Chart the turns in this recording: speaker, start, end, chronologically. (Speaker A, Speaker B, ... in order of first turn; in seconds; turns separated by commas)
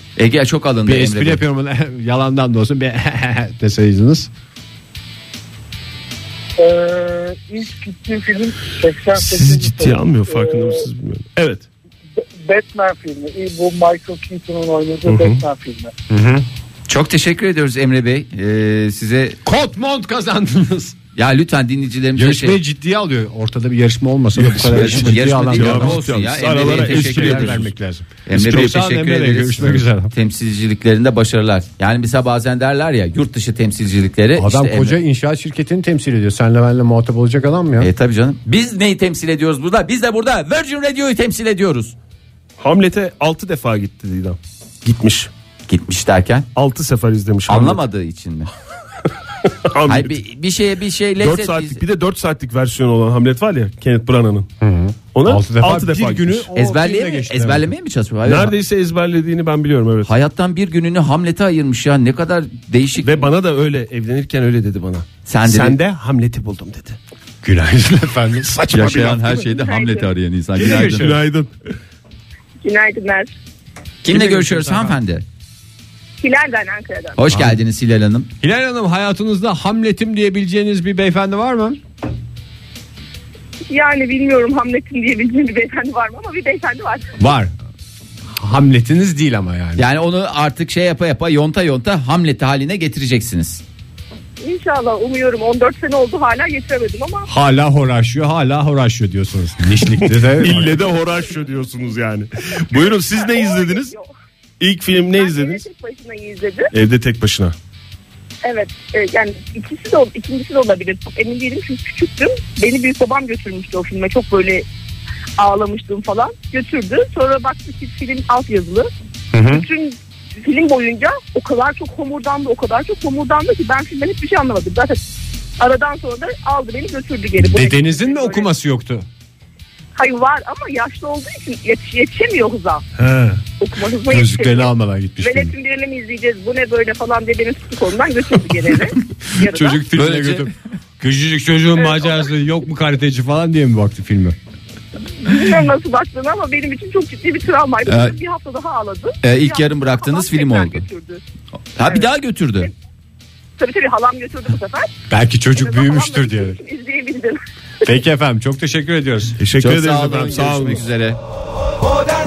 Speaker A: 0.2-1.4, Speaker B: 0.9-4.3, Speaker C: 6.6-10.9, Speaker D: 9.1-11.7, Speaker C: 12.2-15.9, Speaker D: 15.0-15.4, Speaker B: 16.1-16.4, Speaker A: 16.9-19.4, Speaker B: 19.4-20.9, Speaker A: 21.1-22.6, Speaker B: 22.1-26.0, Speaker D: 24.4-27.7, Speaker A: 24.7-27.7, Speaker B: 26.6-30.1, Speaker A: 28.3-35.0, Speaker B: 34.4-37.9, Speaker A: 37.8-41.9, Speaker D: 42.6-45.3, Speaker A: 45.7-46.5, Speaker D: 46.5-47.8, Speaker A: 47.5-48.5, Speaker D: 49.7-50.2, Speaker A: 49.9-51.8, Speaker D: 51.2-54.5, Speaker B: 54.6-57.7, Speaker D: 55.1-56.5, Speaker A: 56.6-58.5, Speaker D: 58.2-60.1, Speaker A: 60.0-63.2, Speaker D: 63.0-67.0, Speaker A: 65.2-65.8, Speaker B: 67.4-68.5, Speaker D: 68.4-69.4, Speaker A: 68.7-71.2, Speaker E: 69.3-70.1, Speaker B: 70.6-71.2, Speaker D: 70.6-71.5, Speaker E: 72.6-73.3, Speaker A: 74.0-75.2, Speaker B: 74.1-74.6, Speaker D: 74.2-74.8, Speaker E: 76.2-77.2, Speaker A: 77.2-78.3, Speaker B: 77.3-77.6, Speaker B: 78.4-81.8, Speaker E: 83.7-87.1, Speaker B: 87.2-87.5, Speaker B: 88.3-89.8, Speaker A: 89.8-93.6, Speaker E: 94.4-97.3, Speaker B: 97.3-100.8, Speaker D: 100.0-103.9, Speaker E: 102.7-104.1, Speaker D: 104.6-105.7, Speaker E: 104.9-106.7, Speaker D: 106.7-107.5, Speaker E: 108.4-114.6, Speaker E: 115.4-118.9, Speaker B: 119.3-119.7, Speaker E: 119.5-125.0, Speaker E: 125.6-128.5, Speaker B: 127.4-129.1, Speaker E: 129.9-132.8, Speaker E: 133.6-139.8, Speaker B: 134.1-135.5, Speaker B: 139.4-144.4, Speaker A: 139.9-140.5, Speaker E: 141.8-142.3, Speaker E: 145.2-151.2, Speaker A: 147.8-148.1, Speaker A: 149.2-150.9, Speaker A: 151.8-152.7, Speaker E: 153.6-154.9, Speaker B: 155.1-156.6, Speaker E: 155.5-157.4, Speaker B: 157.8-159.4, Speaker D: 159.4-160.9, Speaker A: 159.6-161.2